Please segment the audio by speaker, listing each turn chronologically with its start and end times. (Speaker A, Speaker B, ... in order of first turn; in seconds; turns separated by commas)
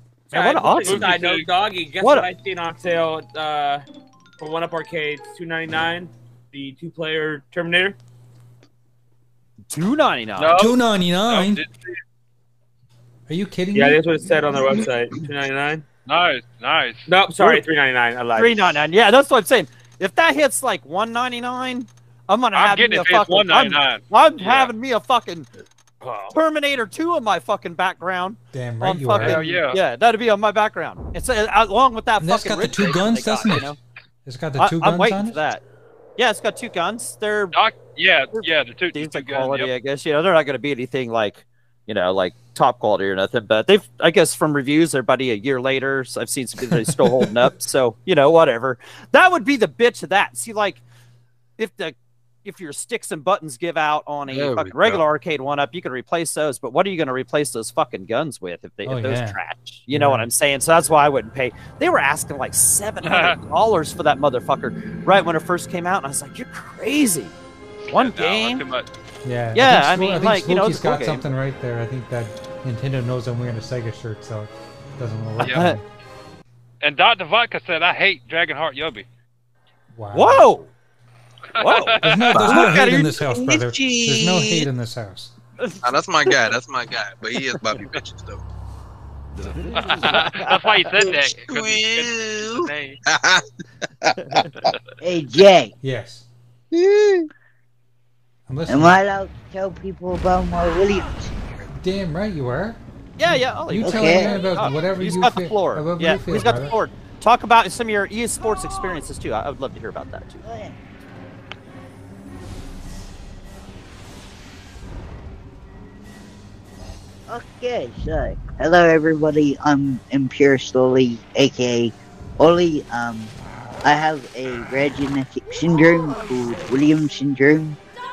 Speaker A: 0.3-1.2, Speaker B: 0.3-3.8, Speaker C: 0.4-1.5, Speaker A: 2.0-2.3, Speaker B: 4.4-8.0, Speaker A: 9.7-10.6, Speaker C: 10.4-11.9, Speaker D: 10.6-11.6, Speaker D: 13.3-14.0, Speaker B: 13.7-15.9, Speaker C: 16.1-17.1, Speaker B: 17.1-18.8, Speaker A: 17.4-17.6, Speaker A: 18.4-25.5, Speaker C: 22.5-24.7, Speaker C: 26.0-26.3, Speaker A: 26.3-33.8, Speaker D: 28.5-29.7, Speaker C: 29.2-29.8, Speaker D: 32.2-35.4, Speaker A: 34.6-35.6, Speaker A: 36.2-37.6, Speaker C: 37.5-39.7, Speaker A: 38.3-50.8, Speaker A: 51.6-67.3, Speaker E: 54.3-55.0, Speaker D: 58.9-60.3, Speaker C: 63.0-63.4, Speaker C: 67.9-68.9, Speaker A: 67.9-68.7, Speaker D: 69.2-75.8, Speaker A: 69.5-71.3, Speaker C: 75.4-75.7, Speaker A: 75.4-75.8, Speaker C: 76.8-79.1, Speaker D: 79.9-80.5, Speaker A: 80.1-80.7, Speaker C: 81.6-82.5, Speaker A: 81.6-83.5, Speaker D: 82.0-85.3, Speaker E: 82.3-82.8, Speaker E: 83.5-84.4, Speaker E: 85.8-88.4, Speaker C: 89.8-93.0, Speaker A: 90.0-90.6, Speaker E: 91.0-93.4, Speaker F: 95.0-95.7, Speaker D: 95.8-96.2, Speaker D: 98.5-99.0, Speaker F: 98.7-101.3, Speaker D: 101.7-106.8, Speaker A: 103.2-110.4, Speaker F: 103.8-104.6, Speaker F: 110.4-110.8, Speaker F: 117.3-123.3, Speaker F: 123.8-127.8